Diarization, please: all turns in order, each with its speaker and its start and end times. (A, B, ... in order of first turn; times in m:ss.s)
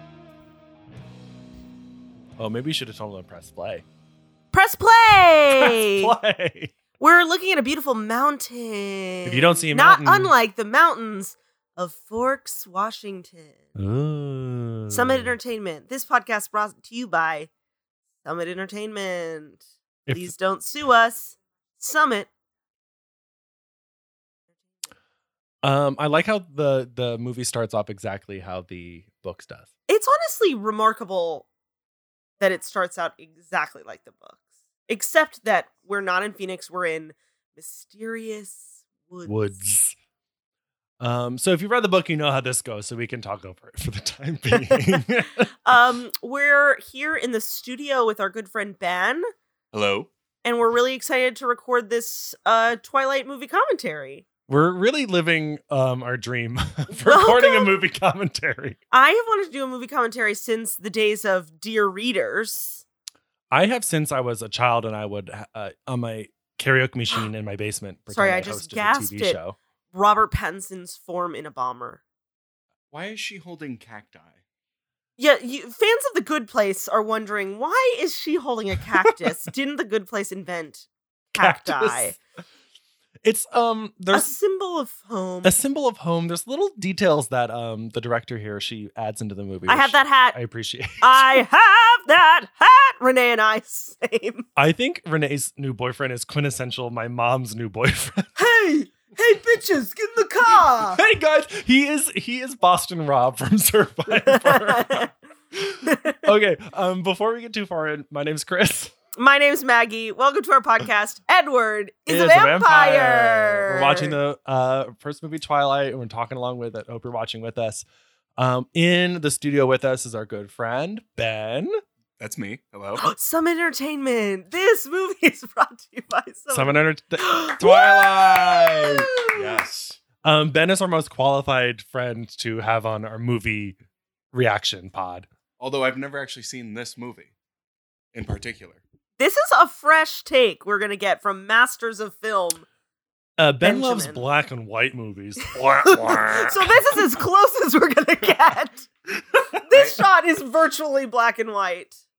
0:02.4-0:03.8 A
0:04.5-0:06.2 B
0:05.5-0:06.7 A
0:07.0-0:13.6 B
0:09.3-0:10.3 A
0:13.8-0:15.4 A
0:14.9-0:17.5 B
0:18.2-0:22.3 B
0:20.1-0:20.3 A
0:25.6-0:29.7 A
0:29.9-0:31.5 B
0:32.4-0:39.6 B
0:39.3-0:40.0 A
0:41.0-0:45.5 A
0:44.5-0:45.0 B
0:45.6-0:49.3 B
0:49.7-0:50.1 C
0:50.4-0:54.2 B
0:54.5-0:58.8 A
0:56.9-0:57.8 B
0:58.9-1:02.8 B
1:03.5-1:09.6 A
1:08.1-1:09.4 B
1:09.9-1:12.0 B
1:12.9-1:14.4 C
1:15.2-1:22.2 B
1:21.4-1:22.2 A
1:23.2-1:24.3 A
1:24.1-1:25.6 B
1:25.4-1:31.4 A
1:29.7-1:30.4 B
1:31.0-1:34.5 B
1:34.6-1:38.3 A
1:38.4-1:41.0 B
1:40.8-1:48.9 A
1:44.2-1:45.1 B
1:45.8-1:46.2 B
1:49.2-1:54.2 B
1:52.1-1:57.8 A
1:58.4-2:01.8 A
2:02.2-2:03.1 C
2:03.0-2:09.4 B
2:06.5-2:09.2 A
2:09.3-2:10.0 C
2:10.2-2:13.8 A
2:14.3-2:15.3 A
2:15.6-2:17.3 C
2:18.1-2:18.8 C
2:19.2-2:22.7 B
2:23.4-2:27.2 A
2:23.6-2:24.2 B
2:25.8-2:28.9 B
2:29.5-2:32.0 B
2:29.7-2:30.0 C